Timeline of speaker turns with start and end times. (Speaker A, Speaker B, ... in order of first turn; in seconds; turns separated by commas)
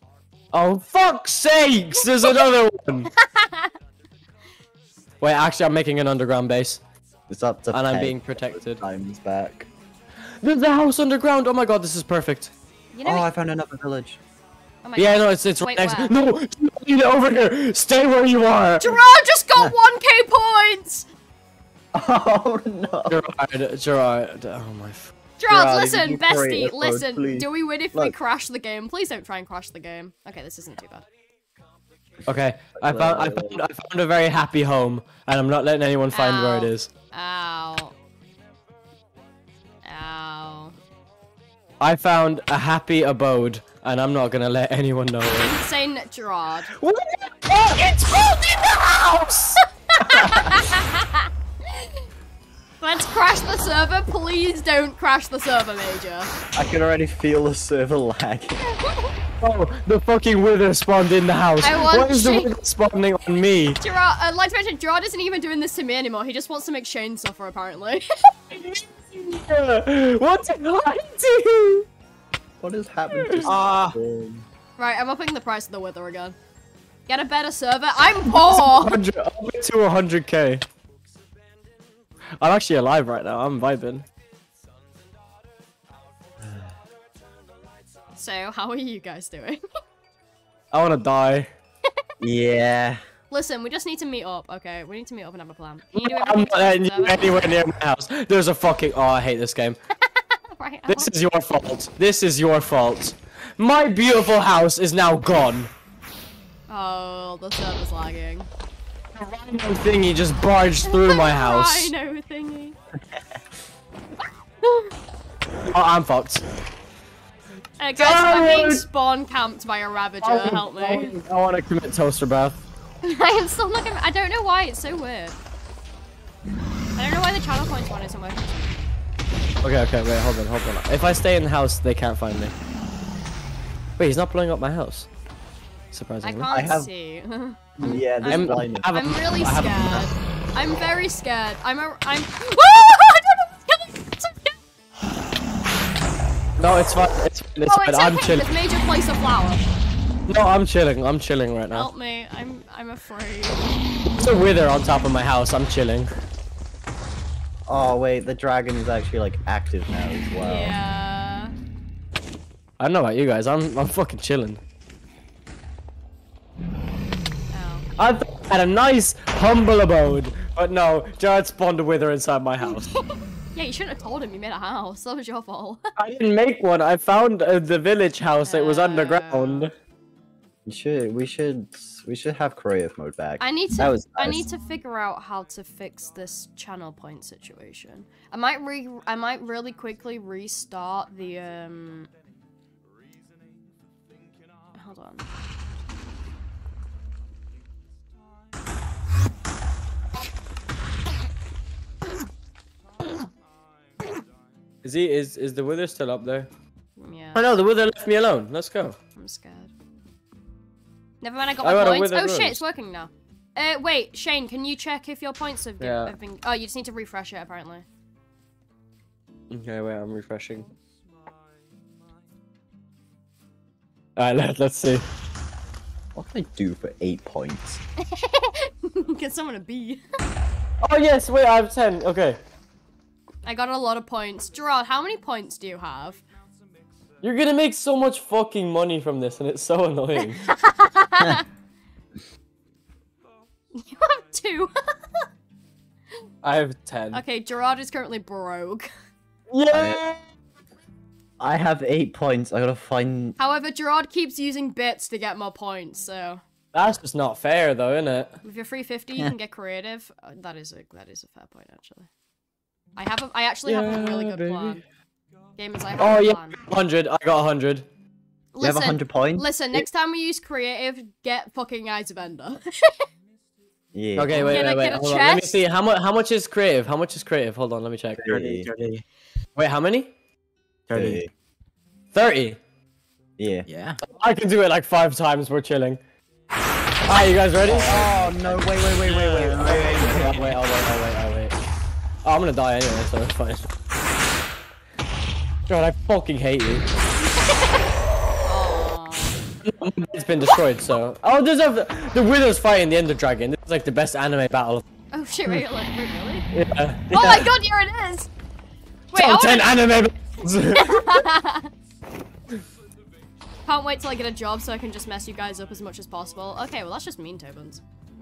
Speaker A: 0.5-3.1, Speaker B: 3.1-3.7, Speaker A: 5.2-6.8, Speaker C: 7.3-9.7, Speaker A: 7.7-8.8, Speaker A: 10.4-12.5, Speaker B: 12.9-13.3, Speaker C: 13.0-14.2, Speaker B: 14.8-16.1, Speaker A: 15.0-18.9, Speaker B: 18.8-21.1, Speaker C: 21.9-23.2, Speaker A: 23.1-25.1, Speaker B: 25.4-31.1, Speaker C: 25.5-28.1, Speaker A: 32.2-36.9, Speaker C: 32.8-33.6, Speaker B: 36.1-37.9, Speaker B: 39.8-40.8, Speaker A: 41.8-45.5, Speaker B: 45.3-46.7, Speaker A: 46.8-49.6, Speaker B: 49.9-52.0, Speaker B: 52.8-56.3, Speaker C: 56.5-58.6, Speaker B: 58.6-59.1, Speaker A: 59.4-63.8, Speaker B: 61.6-62.5, Speaker B: 63.8-68.1, Speaker A: 68.5-71.9, Speaker C: 72.6-74.4, Speaker A: 73.1-73.5, Speaker D: 73.4-74.0, Speaker B: 74.8-76.3, Speaker B: 77.1-79.0, Speaker A: 78.3-80.6, Speaker A: 82.4-84.0, Speaker C: 86.4-86.7, Speaker B: 88.2-89.6, Speaker A: 90.7-91.5, Speaker C: 92.2-93.0, Speaker B: 93.3-97.5, Speaker A: 96.0-99.8, Speaker B: 100.1-101.1, Speaker A: 100.9-105.7, Speaker B: 106.7-108.5, Speaker A: 109.2-111.9, Speaker B: 110.8-112.8, Speaker B: 114.6-114.9, Speaker A: 115.7-116.4, Speaker B: 117.8-121.2, Speaker A: 118.0-118.8, Speaker A: 120.2-122.6, Speaker B: 123.0-125.4, Speaker B: 127.0-128.9, Speaker A: 129.6-132.5, Speaker A: 134.0-135.1, Speaker A: 135.9-136.8, Speaker B: 136.2-144.6, Speaker C: 136.5-136.9, Speaker C: 137.8-138.9, Speaker A: 137.8-140.1, Speaker A: 146.6-148.5, Speaker B: 147.6-149.7, Speaker A: 150.3-151.9, Speaker B: 151.7-153.8, Speaker A: 154.2-156.1, Speaker C: 157.7-160.8, Speaker B: 160.4-161.5, Speaker A: 162.8-164.6, Speaker B: 167.5-167.9, Speaker A: 168.0-172.9, Speaker B: 172.7-175.8, Speaker A: 176.0-179.7, Speaker B: 178.4-179.7, Speaker C: 180.7-184.4, Speaker B: 183.4-192.1, Speaker B: 194.7-195.2, Speaker A: 204.8-206.5, Speaker B: 207.0-207.4, Speaker A: 207.3-209.0, Speaker B: 209.2-209.7, Speaker B: 211.2-217.8, Speaker A: 211.6-212.6, Speaker A: 215.8-216.1, Speaker A: 219.5-220.7, Speaker A: 224.2-225.0, Speaker C: 226.1-227.8, Speaker B: 228.1-230.0, Speaker A: 230.8-232.4, Speaker B: 233.4-236.2, Speaker A: 237.2-240.4, Speaker B: 240.5-241.4, Speaker B: 243.7-245.3, Speaker A: 246.4-247.2, Speaker B: 247.1-248.9, Speaker A: 249.5-250.2, Speaker C: 249.7-250.0, Speaker C: 251.4-253.3, Speaker B: 253.4-256.4, Speaker A: 256.7-258.4, Speaker B: 258.4-262.1, Speaker B: 263.0-264.8, Speaker A: 263.6-264.8, Speaker B: 265.6-266.6, Speaker A: 266.0-267.9, Speaker B: 268.5-273.0, Speaker C: 268.6-269.9, Speaker C: 273.9-274.9, Speaker A: 274.1-278.3, Speaker B: 274.4-275.6, Speaker C: 278.2-278.7, Speaker D: 278.3-279.0, Speaker A: 279.6-280.1, Speaker D: 280.9-281.2, Speaker C: 280.9-281.3, Speaker A: 282.1-282.6, Speaker C: 283.4-283.7, Speaker D: 283.7-284.0, Speaker A: 284.0-286.0, Speaker A: 287.1-288.0, Speaker D: 287.6-290.5, Speaker C: 287.6-290.8, Speaker A: 289.1-291.6, Speaker A: 292.2-293.7, Speaker A: 295.7-296.9, Speaker B: 297.3-297.7, Speaker B: 298.4-299.4, Speaker A: 299.6-304.8, Speaker B: 305.1-306.5, Speaker A: 306.5-307.5, Speaker B: 307.1-308.3, Speaker B: 309.1-309.9, Speaker A: 309.1-311.2, Speaker B: 310.7-311.7, Speaker B: 313.6-317.8